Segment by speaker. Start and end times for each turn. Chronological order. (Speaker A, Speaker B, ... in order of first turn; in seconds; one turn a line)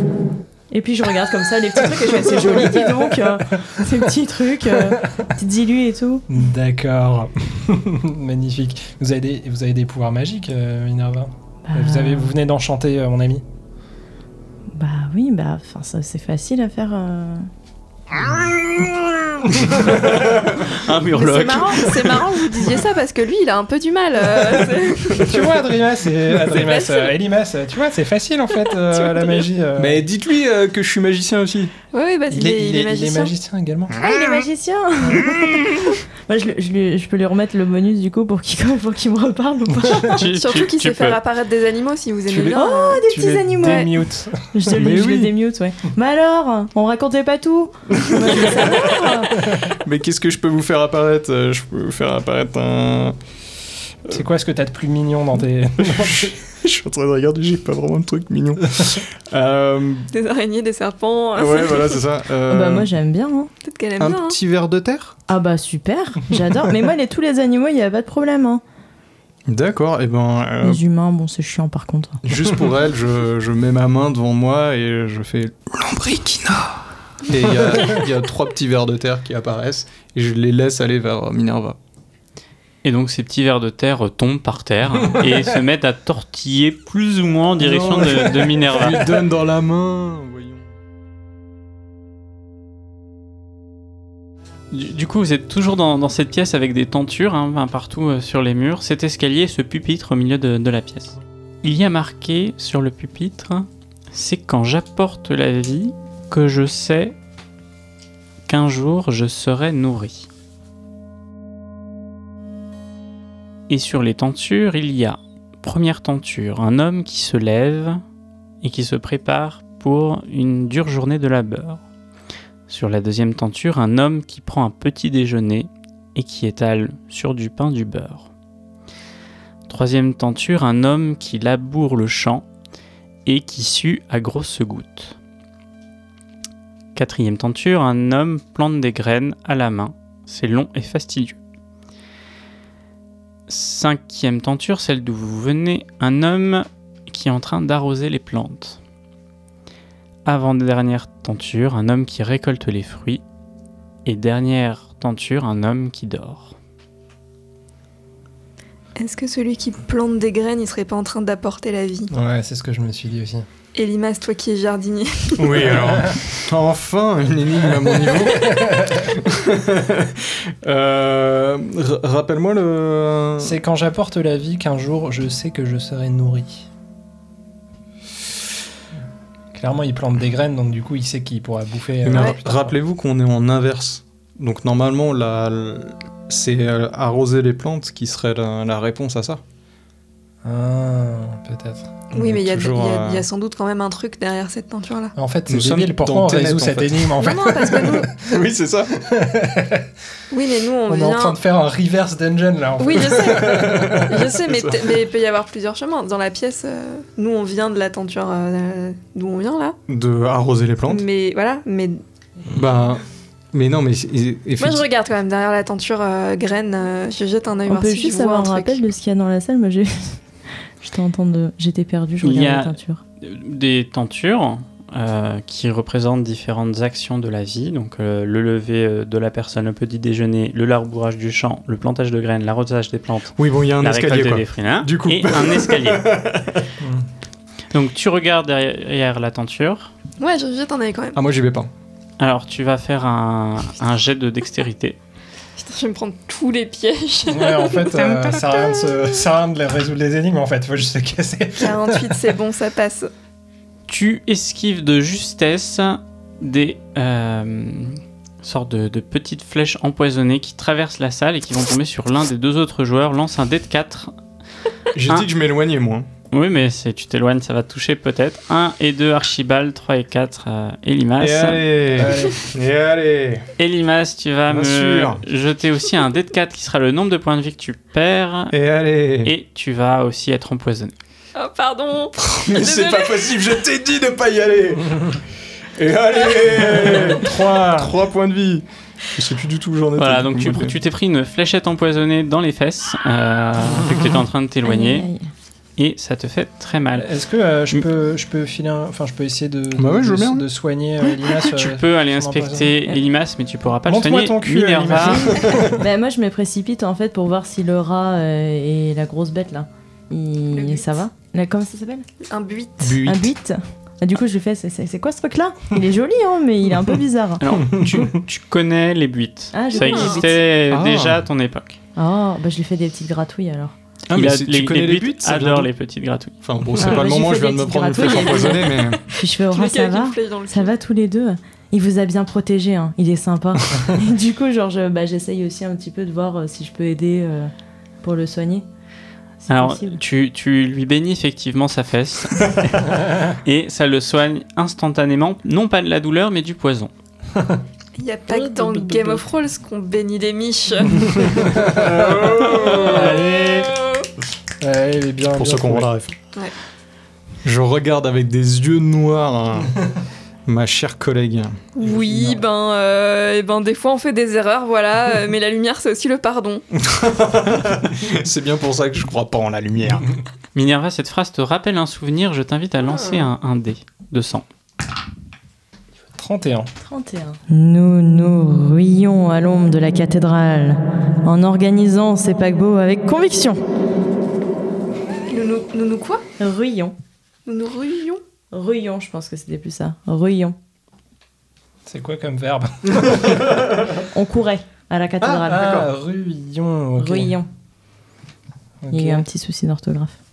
Speaker A: 0.7-6.3
Speaker B: 2.1-3.3
Speaker B: 6.3-13.4
Speaker A: 11.7-12.4
Speaker A: 14.8-17.5
Speaker C: 18.4-18.9
Speaker B: 19.6-20.5
Speaker C: 19.9-20.6
Speaker D: 20.5-22.0
Speaker E: 21.1-25.5
Speaker B: 21.9-22.2
Speaker B: 24.3-30.0
Speaker E: 26.5-27.2
Speaker E: 28.7-29.4
Speaker C: 29.8-31.7
Speaker E: 31.9-33.3
Speaker B: 32.3-34.0
Speaker C: 33.9-34.4
Speaker A: 34.0-40.2
Speaker C: 35.1-35.8
Speaker D: 40.1-41.2
Speaker E: 40.4-43.1
Speaker B: 42.3-44.8
Speaker A: 42.5-49.5
Speaker E: 43.6-43.9
Speaker C: 44.7-45.3
Speaker C: 48.1-48.8
Speaker C: 49.8-53.2
Speaker B: 54.1-56.4
Speaker C: 55.8-60.1
Speaker E: 60.1-62.0
Speaker C: 61.4-62.9
Speaker A: 62.5-63.5
Speaker E: 63.6-64.4
Speaker C: 64.0-65.2
Speaker A: 65.3-68.6
Speaker C: 69.5-70.8
Speaker A: 70.6-72.2
Speaker C: 72.2-81.8
Speaker D: 82.8-89.1
Speaker C: 87.6-90.7
Speaker D: 94.7-107.2
Speaker D: 108.5-110.3
Speaker D: 113.7-118.0
Speaker D: 118.6-121.8
Speaker D: 122.7-128.3
Speaker D: 129.7-132.5
Speaker D: 133.3-135.2
Speaker D: 136.9-141.4
Speaker D: 143.5-148.8
Speaker D: 150.3-153.2
Speaker D: 154.1-156.6
Speaker E: 159.0-162.1
Speaker B: 162.1-163.5
Speaker E: 163.7-165.6
Speaker C: 165.4-173.6
Speaker B: 165.6-166.2
Speaker B: 167.7-169.2
Speaker B: 173.4-176.7
Speaker B: 179.5-182.8
Speaker C: 182.0-189.4
Speaker B: 190.4-192.1
Speaker E: 192.1-195.2
Speaker C: 192.2-193.3
Speaker B: 195.2-198.3
Speaker C: 195.5-197.4
Speaker E: 197.2-198.1
Speaker C: 198.2-199.0
Speaker B: 198.9-199.9
Speaker E: 200.3-201.4
Speaker B: 200.9-204.3
Speaker E: 202.8-209.8
Speaker C: 203.0-204.9
Speaker C: 209.9-211.1
Speaker E: 210.9-212.0
Speaker C: 212.5-214.9
Speaker E: 214.6-218.8
Speaker A: 217.7-220.2
Speaker A: 220.8-223.0
Speaker D: 222.2-236.1
Speaker C: 233.4-236.7
Speaker B: 236.8-237.1
Speaker D: 237.7-239.9
Speaker E: 240.2-241.2
Speaker C: 241.2-241.7
Speaker D: 242.2-245.0
Speaker E: 245.6-248.2
Speaker B: 247.3-252.3
Speaker E: 251.6-253.1
Speaker D: 253.9-264.1
Speaker C: 264.9-266.1
Speaker D: 266.3-271.7
Speaker C: 271.2-273.5
Speaker B: 271.9-272.5
Speaker D: 273.6-278.6
Speaker C: 274.5-275.2
Speaker C: 278.5-279.3
Speaker D: 279.2-280.9
Speaker E: 281.4-283.4
Speaker C: 282.2-285.2
Speaker C: 285.8-290.8
Speaker B: 286.5-287.9
Speaker D: 290.0-295.1
Speaker A: 294.6-295.3
Speaker D: 295.8-297.1
Speaker B: 297.0-302.7
Speaker C: 299.8-300.5
Speaker D: 301.4-305.4
Speaker B: 303.9-305.8
Speaker A: 305.0-312.1
Speaker C: 305.4-305.8
Speaker E: 310.5-311.0
Speaker E: 312.2-313.0
Speaker C: 312.8-313.3
Speaker A: 313.0-317.4
Speaker D: 317.4-321.8
Speaker B: 317.6-318.1
Speaker A: 319.5-320.4
Speaker E: 319.7-320.4
Speaker C: 320.7-321.2
Speaker A: 322.0-323.7
Speaker C: 324.1-325.7
Speaker D: 324.1-326.4
Speaker C: 326.4-329.0
Speaker A: 326.8-337.5
Speaker E: 328.1-330.8
Speaker A: 338.0-338.6
Speaker A: 339.4-340.0
Speaker D: 339.5-346.9
Speaker E: 348.0-351.2
Speaker C: 348.4-349.1
Speaker C: 351.2-353.3
Speaker B: 351.3-353.8
Speaker E: 353.6-354.1
Speaker B: 354.6-355.9
Speaker C: 355.4-356.2
Speaker C: 357.4-359.7
Speaker C: 360.5-361.7
Speaker E: 361.8-366.6
Speaker B: 361.8-362.4
Speaker C: 366.8-370.1
Speaker D: 370.5-374.5
Speaker E: 372.9-373.2
Speaker B: 376.1-376.7
Speaker A: 376.8-383.6
Speaker E: 385.3-386.2
Speaker A: 386.4-386.9
Speaker E: 387.5-388.2
Speaker A: 388.5-390.6
Speaker B: 391.9-393.7
Speaker A: 394.0-395.9
Speaker C: 395.2-395.9
Speaker B: 395.4-397.3
Speaker A: 397.0-397.5
Speaker B: 398.8-399.2
Speaker A: 398.9-400.1